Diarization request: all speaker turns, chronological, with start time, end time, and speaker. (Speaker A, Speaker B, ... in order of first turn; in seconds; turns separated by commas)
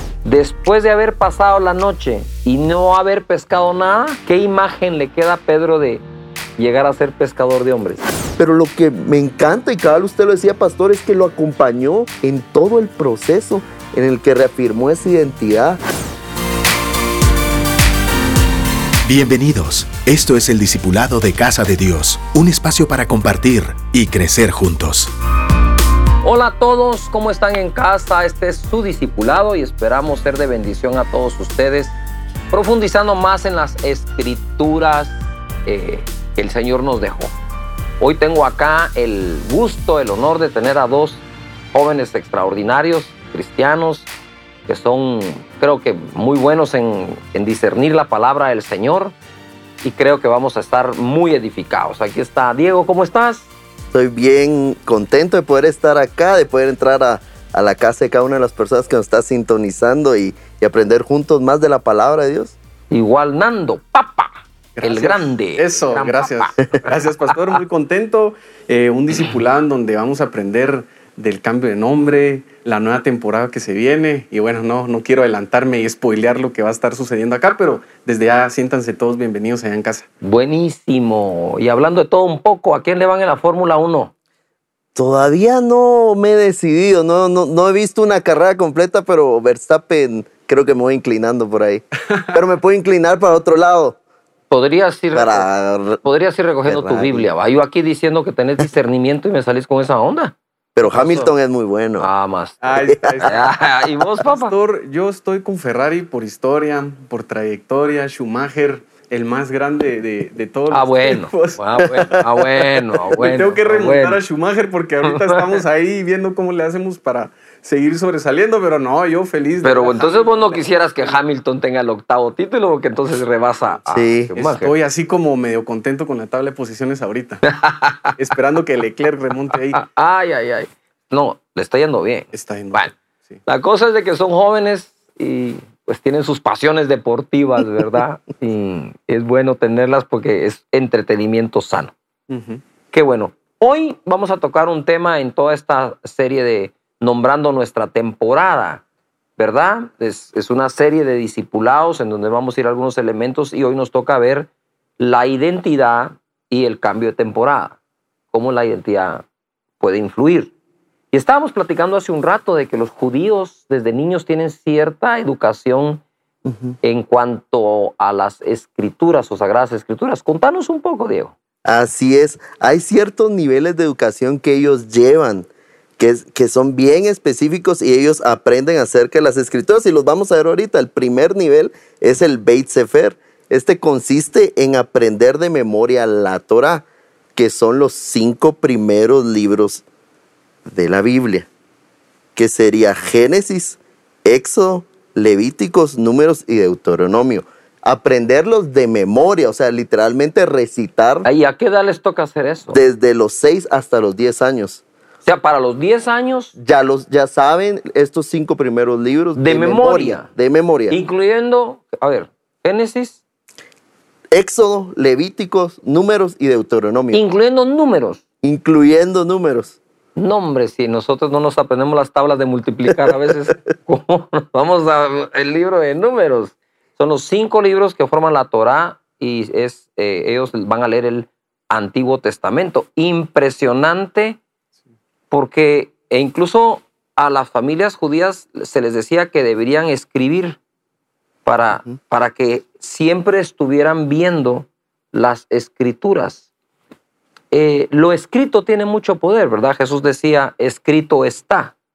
Speaker A: 0.2-6.0, Speaker A: 6.6-8.0, Speaker B: 8.4-15.8, Speaker C: 19.1-25.1, Speaker A: 26.2-31.9, Speaker A: 32.5-37.3, Speaker A: 38.0-44.1, Speaker A: 44.7-49.1, Speaker A: 49.8-53.5, Speaker B: 53.9-62.5, Speaker A: 62.9-67.6, Speaker D: 64.8-80.1, Speaker A: 80.2-84.1, Speaker B: 84.9-94.0, Speaker A: 94.5-95.5, Speaker B: 95.1-96.0, Speaker A: 96.0-100.3, Speaker B: 96.7-97.3, Speaker B: 100.8-102.1, Speaker A: 100.8-101.3, Speaker A: 102.0-102.6, Speaker D: 102.6-103.6, Speaker B: 102.8-103.3, Speaker A: 103.2-104.5, Speaker D: 104.2-121.1, Speaker A: 110.7-114.2, Speaker A: 115.0-115.6, Speaker A: 119.6-124.7, Speaker B: 123.9-124.3, Speaker D: 124.3-127.4, Speaker A: 127.4-128.2, Speaker D: 128.2-129.8, Speaker A: 129.7-132.9, Speaker D: 132.3-133.4, Speaker A: 133.4-141.9, Speaker D: 142.3-142.6, Speaker A: 142.9-148.8, Speaker A: 149.4-157.8, Speaker A: 158.3-159.2, Speaker A: 159.8-160.5, Speaker A: 161.1-166.0, Speaker B: 166.4-166.8, Speaker A: 166.8-171.3, Speaker B: 171.6-186.8, Speaker B: 187.3-189.8, Speaker B: 190.7-191.5, Speaker B: 192.3-201.3, Speaker A: 201.2-202.8, Speaker B: 202.7-204.8, Speaker A: 205.2-206.6, Speaker B: 206.6-211.0, Speaker A: 209.4-210.3, Speaker A: 210.9-213.2, Speaker B: 214.3-217.2, Speaker A: 217.1-218.2, Speaker B: 218.4-219.8, Speaker A: 220.2-234.4, Speaker B: 222.9-223.3, Speaker A: 235.3-240.6, Speaker A: 241.4-246.4, Speaker A: 247.5-251.7